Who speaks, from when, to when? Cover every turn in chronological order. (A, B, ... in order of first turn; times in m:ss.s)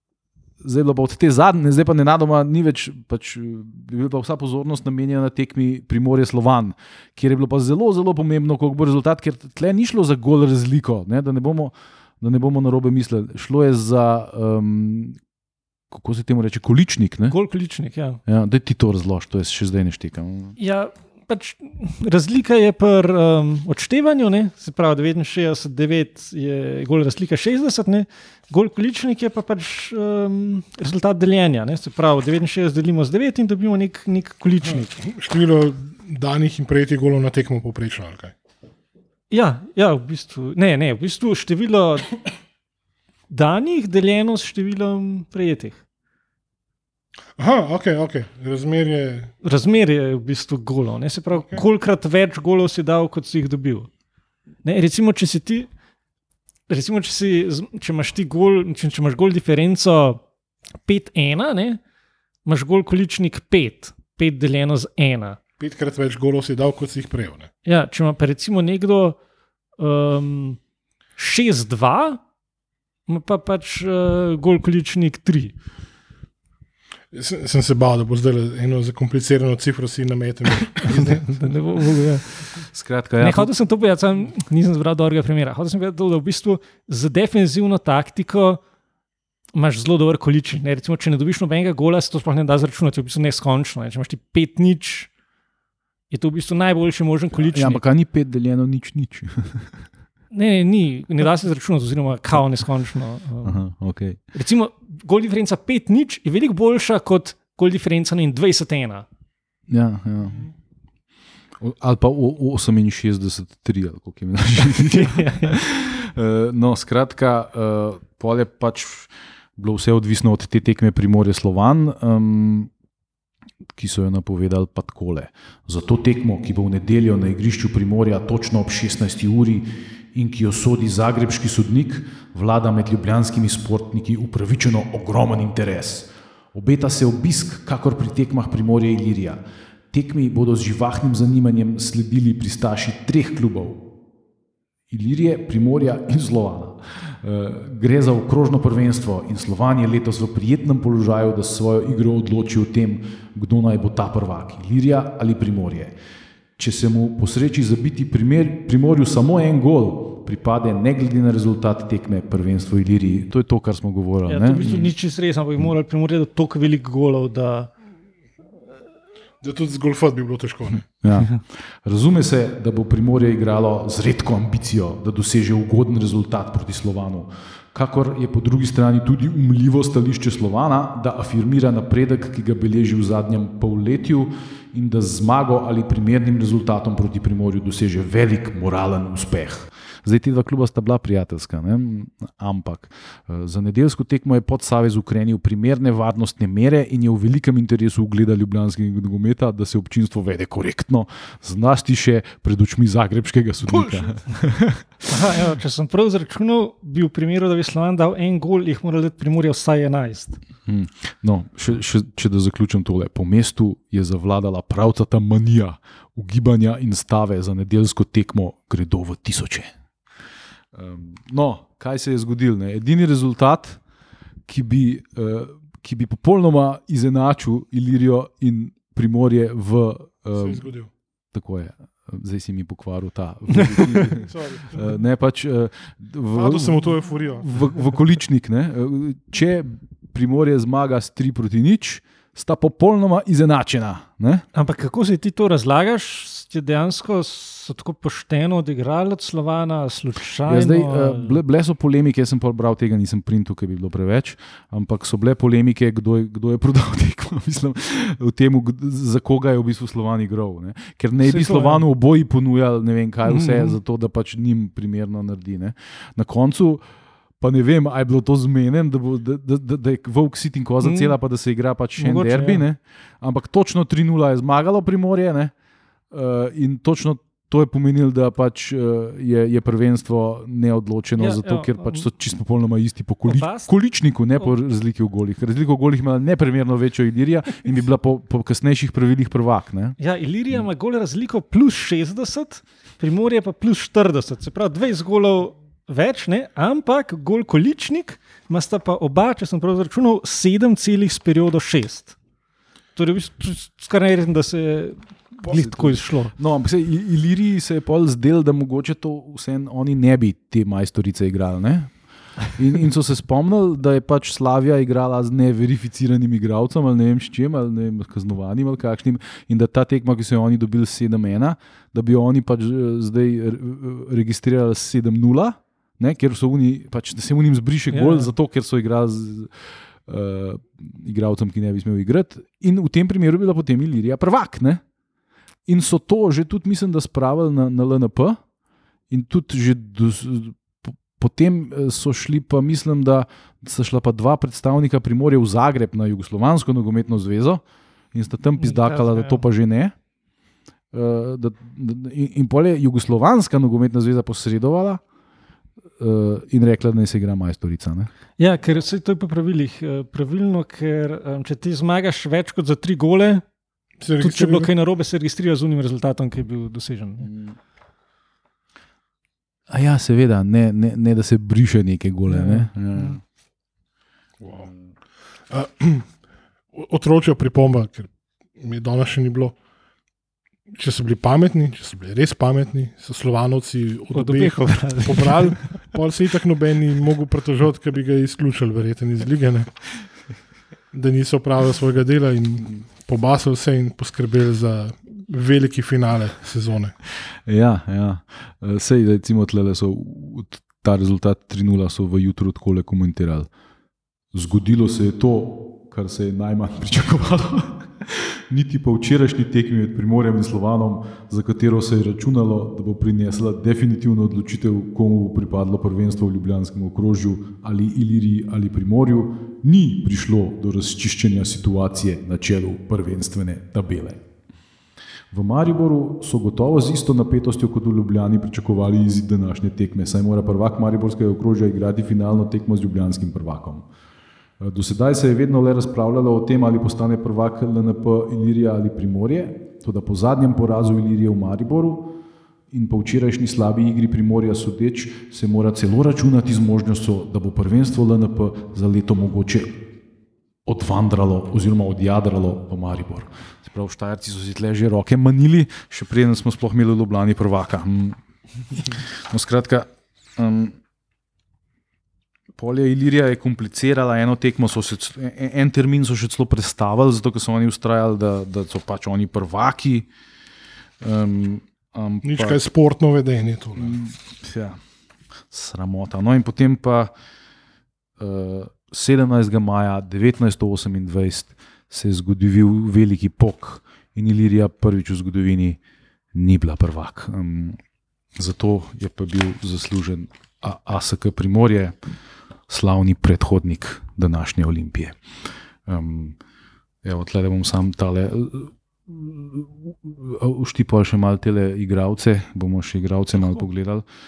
0:00.6-0:15.2 A
0:15.9-0:17.4 A
0:17.3-0:18.2 B
0:18.3-0:20.6 A
0:20.6-0:35.0 B
0:34.8-0:38.3 C
0:39.3-0:42.2 B
0:43.3-0:45.8 B
0:47.4-0:49.3 C
0:49.4-0:53.9 B
0:54.6-0:55.7 B
0:56.7-1:00.2 B
1:00.9-1:01.8 B
1:02.4-1:05.4 B
1:05.6-1:07.5 C
1:07.6-1:09.2 B
1:09.8-1:10.6 B
1:11.2-1:12.2 B
1:13.1-1:15.6 B
1:17.1-1:21.4 C
1:20.8-1:22.6 B
1:22.7-1:23.5 A
1:23.2-1:28.6 B
1:29.5-1:35.1 B
1:36.1-1:37.8 B
1:37.4-1:39.8 A
1:40.3-1:43.6 B
1:43.4-1:44.2 A
1:44.3-1:49.1 B
1:49.7-1:50.5 A
1:51.6-2:02.7 A
1:54.9-1:55.6 B
2:03.8-2:19.4 A
2:19.9-2:23.8 A
2:24.9-2:36.0 A
2:36.6-2:44.9 A
2:44.3-2:47.7 B
2:49.4-2:50.8 C
2:50.9-3:25.2 A
3:25.1-3:30.4 B
3:30.7-3:39.7 A
3:40.7-3:43.8 A
3:44.5-3:50.7 A
3:50.4-3:50.9 C
3:51.3-4:04.5 A
3:53.6-3:54.1 B
3:54.1-3:54.9 C
3:56.3-3:58.0 C
4:04.5-4:11.4 B
4:10.5-4:26.8 A
4:21.2-4:21.8 B
4:23.2-4:23.8 B
4:27.4-4:35.5 A
4:30.8-4:31.1 B
4:32.0-4:32.6 B
4:36.1-4:50.0 A
4:41.2-4:42.1 B
4:43.3-4:43.7 B
4:50.0-5:02.2 B
5:03.0-5:06.4 B
5:05.4-5:11.9 A
5:12.6-5:34.8 A
5:27.9-5:28.3 B
5:35.7-5:38.4 A
5:39.1-5:49.9 A
5:48.6-5:49.4 B
5:50.9-5:55.0 A
5:56.0-5:58.1 A
5:58.4-6:03.4 B
6:04.0-6:04.7 C
6:04.2-6:07.3 B
6:07.2-6:07.5 A
6:09.7-6:13.2 A
6:12.3-6:13.2 B
6:14.4-6:14.8 A
6:15.5-6:16.1 C
6:16.7-6:19.6 C
6:20.7-6:29.7 C
6:24.1-6:25.6 B
6:30.9-6:37.0 C
6:37.5-6:43.5 A
6:44.3-7:04.2 A
7:05.3-7:13.9 A
7:14.6-7:22.2 A
7:22.7-7:29.8 A
7:30.7-7:38.2 A
7:38.7-7:40.8 A
7:42.6-7:50.1 A
7:51.0-7:52.6 A
7:52.2-7:54.0 C
7:53.8-7:54.8 A
7:55.5-7:57.1 A
7:58.2-8:05.8 A
8:06.3-8:07.8 A
8:08.4-8:12.0 A
8:12.7-8:15.2 A
8:15.9-8:16.4 A
8:17.0-8:24.0 A